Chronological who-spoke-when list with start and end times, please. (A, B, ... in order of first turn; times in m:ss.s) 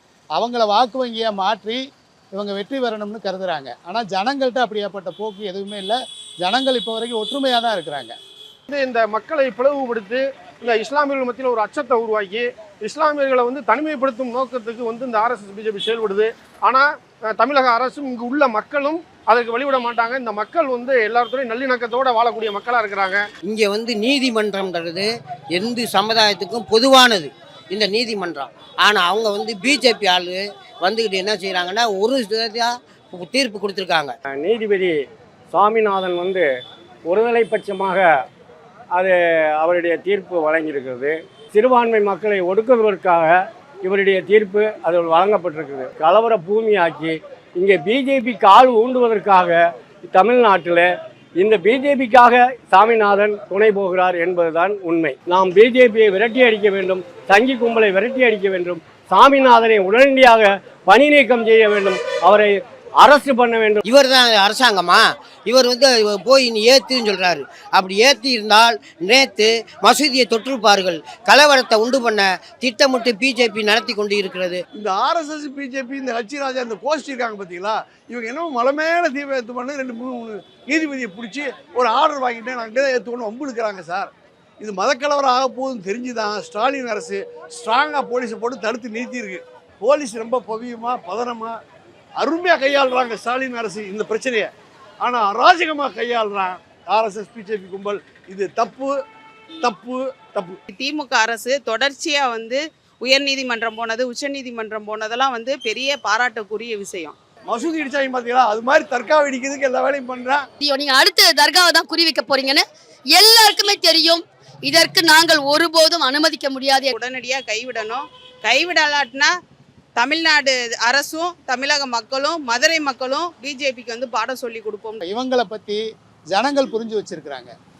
0:00.4-0:01.8 A
0:02.4-0:08.1 A
0:08.7-0:23.2 B
0:23.5-0:25.1 C
0:25.6-0:34.1 C
0:34.3-0:34.9 D
0:35.5-0:36.5 D
0:37.0-0:38.1 D
0:38.9-1:03.8 D
1:03.9-1:14.6 C
1:14.7-1:24.1 E
1:24.6-1:31.6 E
1:32.2-1:34.5 E
1:35.0-1:38.9 E
1:39.6-1:40.6 E
1:40.7-1:47.1 F
1:47.5-1:50.4 E
1:50.6-1:52.6 G
1:53.2-1:56.9 G
1:56.9-1:59.3 F
2:00.0-2:05.0 F
2:05.0-2:05.8 A
2:06.3-2:07.5 A